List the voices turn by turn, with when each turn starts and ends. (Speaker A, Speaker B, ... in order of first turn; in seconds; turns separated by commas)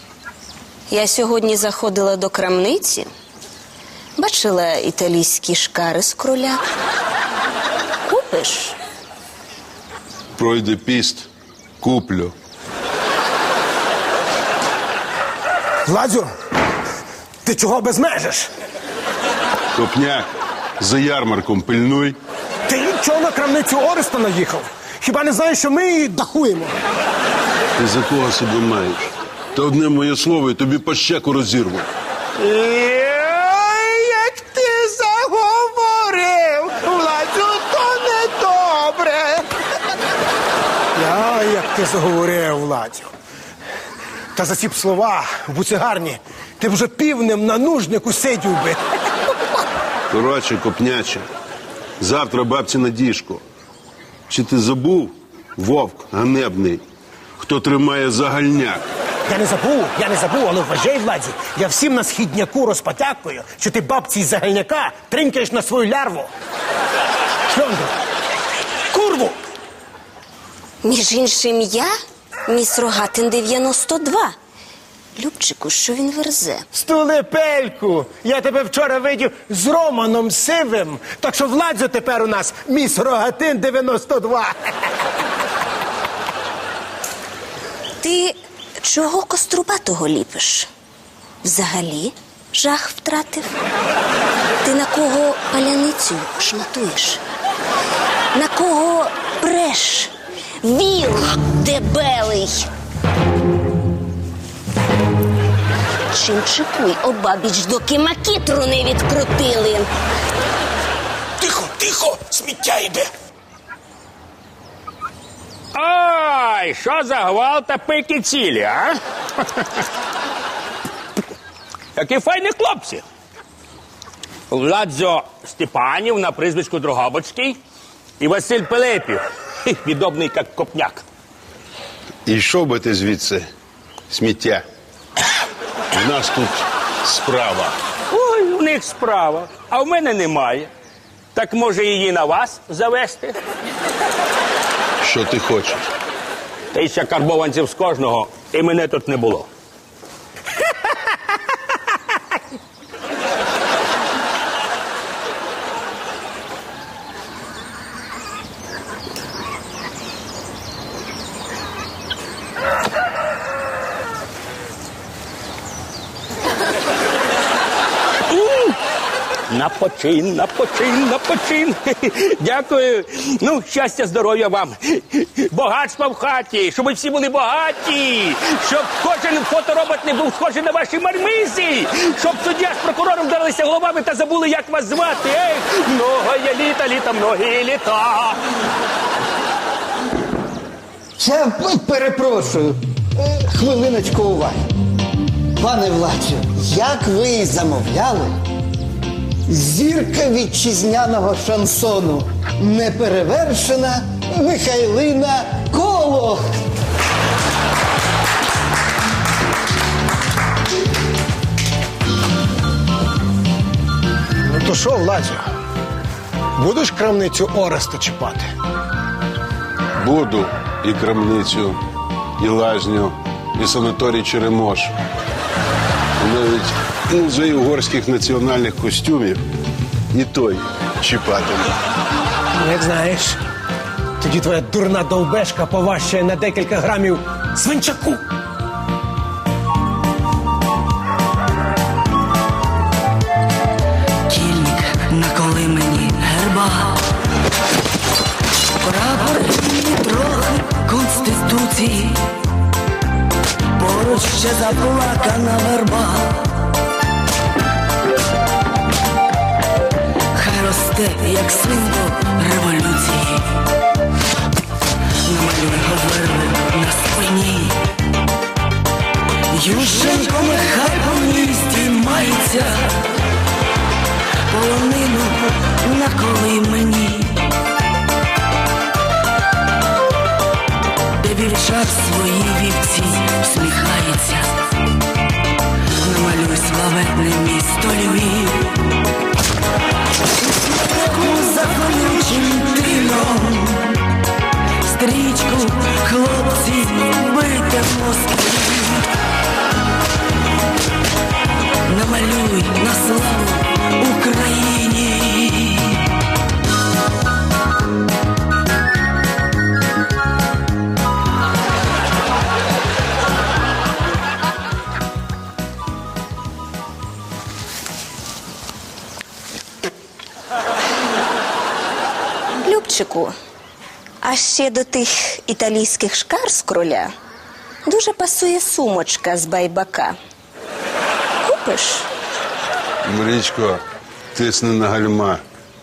Speaker A: 0.9-3.1, Speaker A: 4.2-6.6, Speaker A: 8.1-8.8, Speaker B: 10.4-11.3, Speaker B: 11.8-12.3, Speaker C: 15.9-16.3, Speaker C: 17.4-18.5, Speaker B: 19.8-22.2, Speaker C: 22.7-26.8, Speaker B: 27.8-31.9, Speaker C: 32.4-39.5, Speaker C: 41.0-43.1, Speaker C: 44.4-48.8, Speaker B: 50.1-51.3, Speaker B: 52.0-53.4, Speaker B: 54.3-56.8, Speaker B: 57.4-58.9, Speaker C: 59.3-66.3, Speaker C: 67.5-67.9, Speaker C: 68.9-69.4, Speaker A: 70.8-71.9, Speaker A: 72.5-74.3, Speaker A: 75.2-76.7, Speaker C: 76.7-84.5, Speaker A: 88.0-90.7, Speaker A: 91.4-93.6, Speaker A: 94.6-97.2, Speaker A: 98.3-100.1, Speaker A: 100.6-102.7, Speaker A: 106.1-109.9, Speaker D: 111.7-113.0, Speaker D: 115.7-119.8, Speaker D: 122.0-123.0, Speaker D: 124.5-127.6, Speaker D: 128.2-131.1, Speaker B: 132.3-133.5, Speaker B: 134.1-134.7, Speaker B: 135.9-137.8, Speaker D: 138.1-140.7, Speaker D: 141.3-143.4, Speaker B: 145.0-145.9, Speaker D: 146.7-149.5, Speaker D: 168.3-168.8, Speaker D: 169.5-188.4, Speaker E: 191.2-194.7, Speaker E: 195.6-198.4, Speaker E: 199.5-206.5, Speaker C: 214.4-215.5, Speaker C: 216.6-218.5, Speaker B: 220.0-221.8, Speaker B: 222.4-224.9, Speaker B: 226.2-229.4, Speaker B: 230.1-231.7, Speaker C: 232.6-233.4, Speaker C: 234.2-238.2, Speaker F: 244.3-247.0, Speaker F: 248.8-252.2, Speaker F: 253.8-256.5, Speaker F: 260.4-263.5, Speaker F: 265.2-267.8, Speaker F: 269.5-272.9, Speaker F: 274.5-277.5, Speaker F: 281.2-284.5, Speaker F: 286.0-288.8, Speaker F: 290.4-294.0, Speaker F: 294.8-299.1, Speaker F: 301.9-306.1, Speaker A: 322.6-323.3, Speaker A: 324.2-327.1, Speaker A: 327.9-330.2, Speaker A: 331.4-332.1, Speaker B: 333.1-333.8, Speaker B: 334.3-335.4